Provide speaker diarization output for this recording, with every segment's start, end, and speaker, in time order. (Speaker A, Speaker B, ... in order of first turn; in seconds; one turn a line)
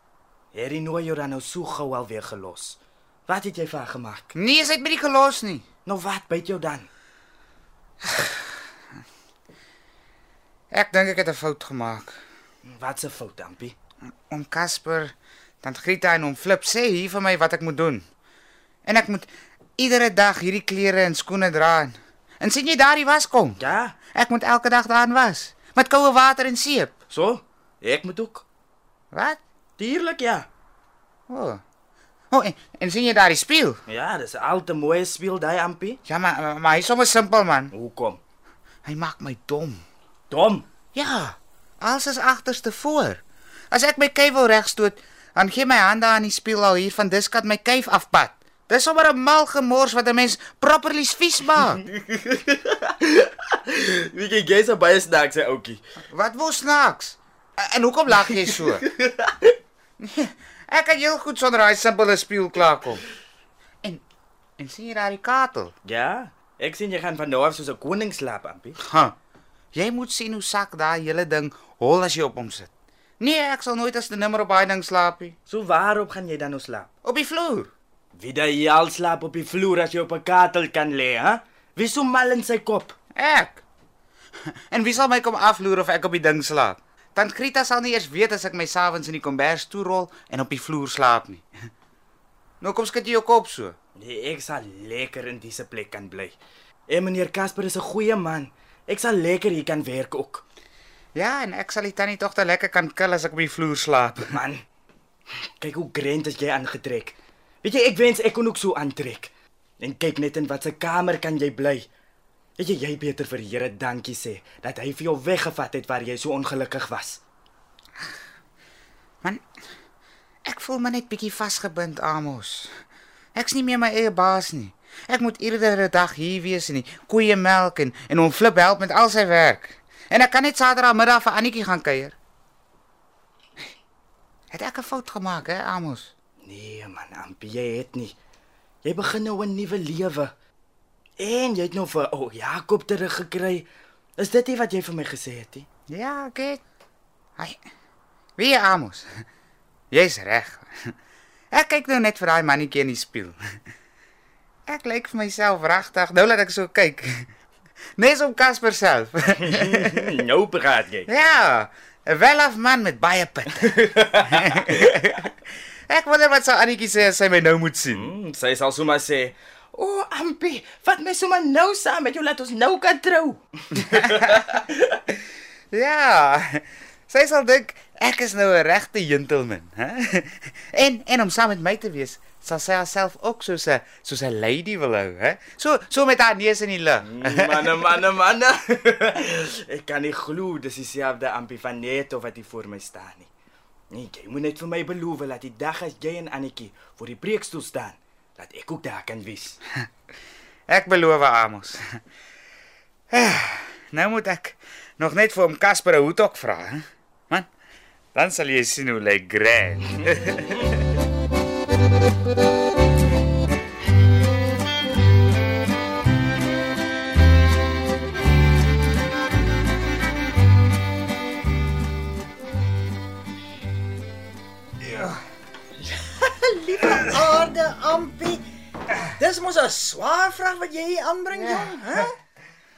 Speaker A: 0.5-4.3
Speaker B: 4.3-5.7
Speaker A: 5.9-6.9
Speaker B: 8.0-8.4
Speaker B: 10.7-12.2
Speaker A: 12.7-13.8
Speaker B: 14.3-18.0
Speaker B: 18.9-23.6
Speaker A: 23.6-24.0
Speaker B: 24.1-27.0
Speaker A: 27.1-28.5
Speaker B: 29.1-29.4
Speaker A: 29.8-30.5
Speaker B: 31.3-31.6
Speaker B: 32.3-33.8
Speaker A: 33.9-36.0
Speaker B: 36.1-37.7
Speaker A: 37.7-38.2
Speaker B: 38.9-39.8
Speaker A: 40.3-40.7
Speaker B: 40.9-51.8
Speaker A: 51.8-55.8
Speaker B: 56.1-58.9
Speaker A: 58.5-59.5
Speaker B: 60.0-63.0
Speaker B: 64.6-65.7
Speaker A: 65.9-68.8
Speaker B: 68.8-69.2
Speaker B: 69.7-75.4
Speaker A: 75.5-76.9
Speaker B: 77.0-77.7
Speaker A: 78.2-83.0
Speaker B: 83.2-83.6
Speaker B: 84.5-91.5
Speaker B: 92.6-93.8
Speaker A: 94.0-96.4
Speaker A: 96.9-100.4
Speaker B: 101.2-104.3
Speaker A: 104.3-104.6
Speaker A: 105.6-111.9
Speaker A: 112.6-117.2
Speaker B: 120.5-122.7
Speaker B: 123.3-132.2
Speaker B: 134.5-136.1
Speaker A: 136.4-138.2
Speaker A: 138.8-140.3
Speaker A: 141.2-143.7
Speaker A: 144.2-145.7
Speaker B: 145.9-146.6
Speaker B: 148.4-149.1
Speaker B: 149.9-150.7
Speaker B: 151.5-153.4
Speaker B: 154.7-157.3
Speaker B: 158.0-160.1
Speaker A: 159.4-161.1
Speaker B: 161.1-165.3
Speaker A: 163.6-164.9
Speaker B: 165.9-168.1
Speaker A: 167.9-174.7
Speaker B: 173.8-174.6
Speaker B: 175.7-187.9
Speaker A: 187.1-193.3
Speaker A: 193.9-199.6
Speaker B: 200.7-201.8
Speaker B: 203.1-207.5
Speaker B: 208.1-210.8
Speaker B: 224.9-225.2
Speaker C: 226.0-228.4
Speaker C: 229.2-232.1
Speaker B: 231.4-231.7